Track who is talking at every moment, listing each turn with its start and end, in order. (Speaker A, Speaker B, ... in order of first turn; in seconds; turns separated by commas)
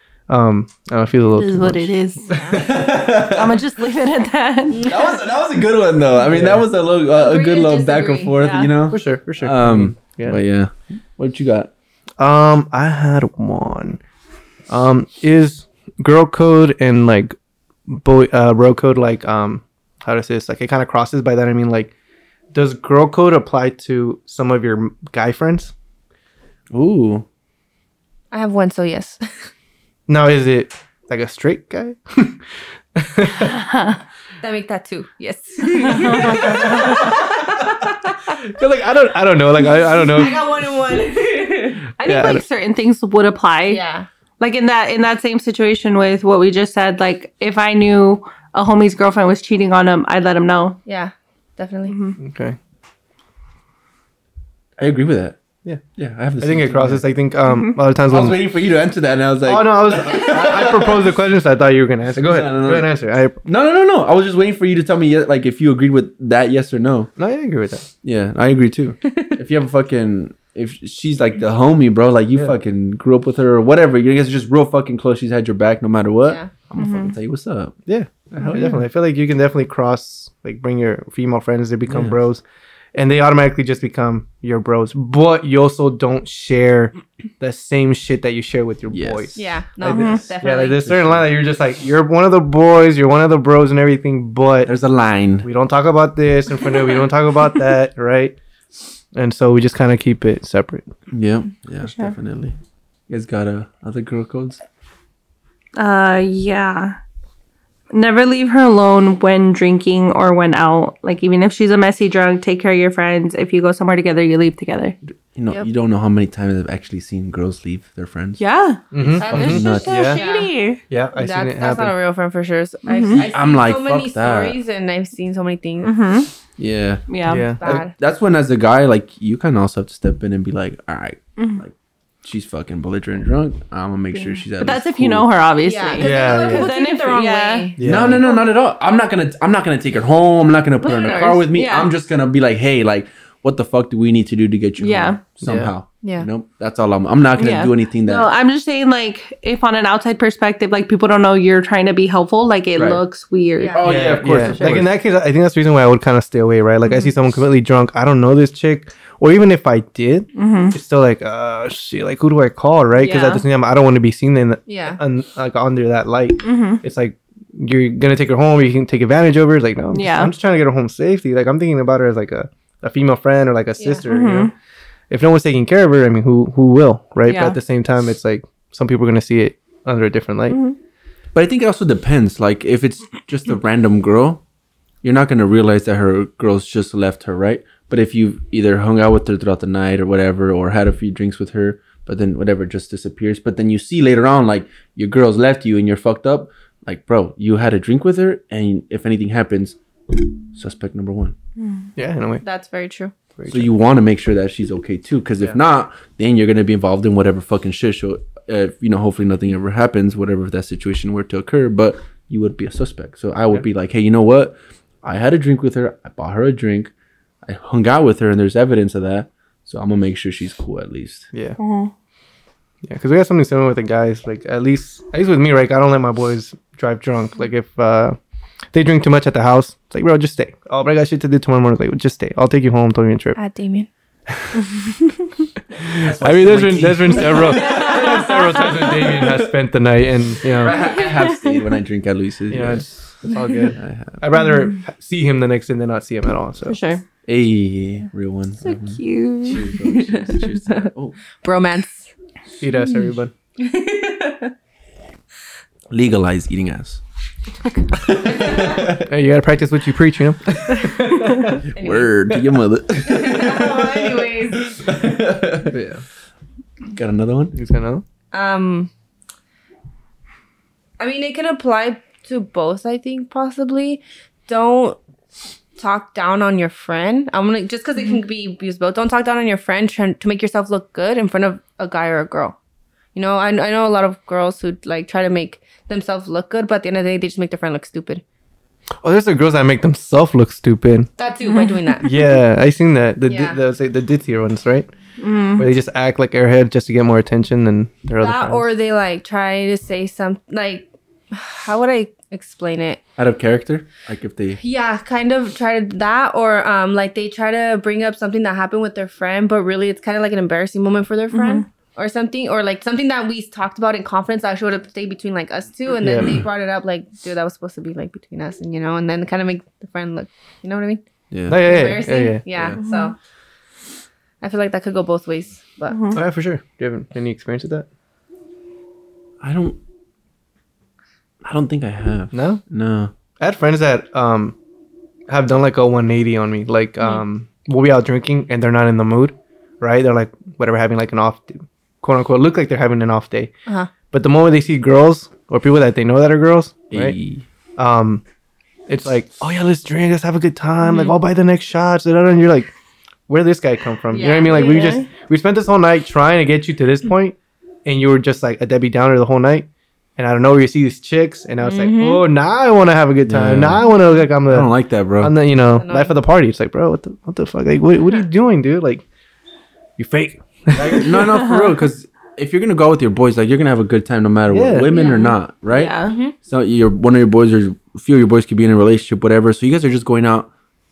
Speaker A: 0.3-2.4, Speaker B: 1.3-4.9, Speaker C: 2.3-2.6, Speaker D: 2.5-3.6, Speaker C: 4.7-5.2, Speaker D: 4.8-11.7, Speaker A: 6.3-6.7, Speaker C: 7.1-8.5, Speaker B: 8.3-8.7, Speaker A: 8.9-10.4, Speaker A: 12.2-14.0, Speaker A: 14.7-17.4, Speaker A: 17.9-21.9, Speaker A: 22.5-25.7, Speaker D: 26.7-27.2, Speaker C: 28.3-29.2, Speaker A: 30.1-32.4, Speaker A: 32.9-33.6, Speaker B: 33.4-34.0, Speaker C: 34.4-38.2, Speaker B: 35.9-37.0, Speaker A: 36.2-37.3, Speaker A: 38.4-40.4, Speaker C: 40.1-41.9, Speaker B: 42.0-43.8, Speaker A: 42.0-42.4, Speaker C: 43.7-44.1, Speaker B: 44.4-50.8, Speaker C: 50.9-52.0, Speaker B: 51.9-52.2, Speaker A: 52.2-52.5, Speaker D: 54.8-55.4, Speaker D: 56.0-57.0, Speaker A: 56.4-58.4, Speaker D: 58.1-61.1, Speaker A: 59.4-63.4, Speaker D: 62.1-62.9, Speaker D: 63.4-67.1, Speaker A: 67.2-67.9, Speaker D: 68.0-77.8, Speaker B: 76.8-77.1, Speaker A: 77.9-82.4, Speaker D: 78.3-78.7, Speaker D: 81.9-82.2, Speaker A: 82.9-94.7, Speaker D: 88.9-91.3, Speaker C: 89.3-90.8, Speaker B: 89.9-90.2, Speaker D: 94.7-95.5, Speaker A: 95.4-98.4, Speaker A: 99.1-100.9, Speaker D: 101.1-102.5, Speaker B: 101.8-102.1, Speaker D: 103.1-104.6, Speaker B: 105.8-107.0, Speaker B: 107.9-115.0, Speaker D: 115.3-118.4, Speaker B: 118.4-120.8, Speaker A: 118.9-120.2, Speaker C: 119.2-120.5, Speaker D: 119.2-120.1, Speaker A: 120.9-121.9, Speaker C: 121.1-126.0, Speaker B: 122.8-123.3, Speaker D: 123.2-124.6, Speaker B: 125.8-126.3, Speaker D: 126.6-135.3, Speaker B: 127.1-127.5, Speaker A: 127.2-127.7, Speaker C: 127.6-127.9, Speaker B: 134.1-137.7, Speaker C: 135.6-138.1, Speaker A: 136.0-136.7, Speaker A: 137.8-138.2, Speaker D: 137.8-148.3, Speaker C: 140.8-141.4, Speaker B: 141.2-141.9, Speaker B: 144.8-145.2, Speaker A: 145.4-145.7, Speaker B: 147.4-154.9, Speaker D: 152.7-153.0, Speaker C: 153.6-153.8, Speaker D: 153.7-154.9, Speaker A: 153.8-174.5, Speaker B: 160.3-160.7, Speaker B: 163.0-163.4, Speaker C: 164.7-165.0, Speaker B: 166.4-166.8, Speaker B: 169.9-170.3, Speaker B: 174.1-174.5, Speaker A: 175.1-180.6, Speaker B: 177.2-177.6, Speaker B: 180.5-180.8, Speaker D: 181.3-184.4, Speaker D: 185.0-201.3, Speaker B: 201.6-201.9, Speaker A: 202.0-202.4, Speaker C: 202.4-203.1, Speaker A: 203.4-203.7, Speaker D: 203.5-216.9, Speaker D: 217.4-221.3, Speaker B: 221.6-221.9, Speaker A: 222.8-228.2, Speaker A: 228.7-233.4, Speaker C: 233.4-233.9, Speaker A: 234.3-234.8, Speaker A: 235.8-240.8, Speaker D: 235.9-239.5, Speaker D: 240.4-242.9, Speaker B: 240.8-241.3, Speaker A: 242.5-246.8, Speaker D: 243.7-244.2, Speaker B: 246.7-247.0, Speaker D: 247.2-251.2, Speaker B: 248.6-249.7, Speaker C: 249.7-250.9, Speaker C: 251.4-252.1, Speaker A: 252.6-253.3, Speaker C: 253.6-254.5, Speaker D: 255.9-257.0, Speaker D: 258.0-259.0, Speaker C: 258.2-258.8, Speaker A: 259.0-261.6, Speaker D: 261.6-265.8, Speaker C: 261.7-262.1, Speaker C: 263.0-264.7, Speaker A: 265.7-266.0, Speaker D: 266.9-267.5, Speaker A: 267.5-268.0, Speaker C: 268.3-268.9, Speaker C: 271.0-275.0, Speaker C: 275.8-282.5, Speaker C: 283.1-288.2, Speaker A: 289.0-291.1, Speaker C: 291.2-292.2, Speaker B: 291.4-292.1, Speaker A: 292.0-294.9, Speaker C: 293.3-293.6, Speaker B: 295.2-295.7, Speaker A: 295.6-298.6, Speaker C: 298.2-303.0, Speaker D: 303.2-304.6, Speaker C: 304.6-321.0, Speaker B: 311.3-311.6, Speaker A: 316.0-316.4, Speaker D: 321.3-321.7, Speaker A: 321.5-322.4, Speaker C: 321.6-323.1, Speaker D: 322.5-322.8, Speaker B: 322.8-323.1, Speaker C: 324.4-326.0, Speaker B: 325.9-326.2, Speaker A: 326.1-327.9, Speaker D: 329.4-329.8, Speaker D: 331.4-333.1, Speaker A: 332.3-332.6, Speaker A: 333.4-334.5, Speaker A: 335.3-343.5, Speaker C: 343.6-343.9, Speaker A: 344.1-347.2, Speaker D: 346.9-347.4, Speaker A: 347.8-348.2, Speaker A: 348.9-352.7, Speaker A: 353.3-369.0, Speaker C: 354.1-355.0, Speaker B: 354.4-355.1, Speaker C: 361.6-362.2, Speaker D: 363.3-363.9, Speaker D: 364.5-365.3, Speaker C: 365.7-366.1, Speaker A: 370.0-371.1, Speaker D: 370.7-380.5, Speaker B: 371.3-371.7, Speaker A: 374.5-374.9, Speaker B: 374.9-376.1, Speaker C: 374.9-375.3, Speaker C: 376.0-376.3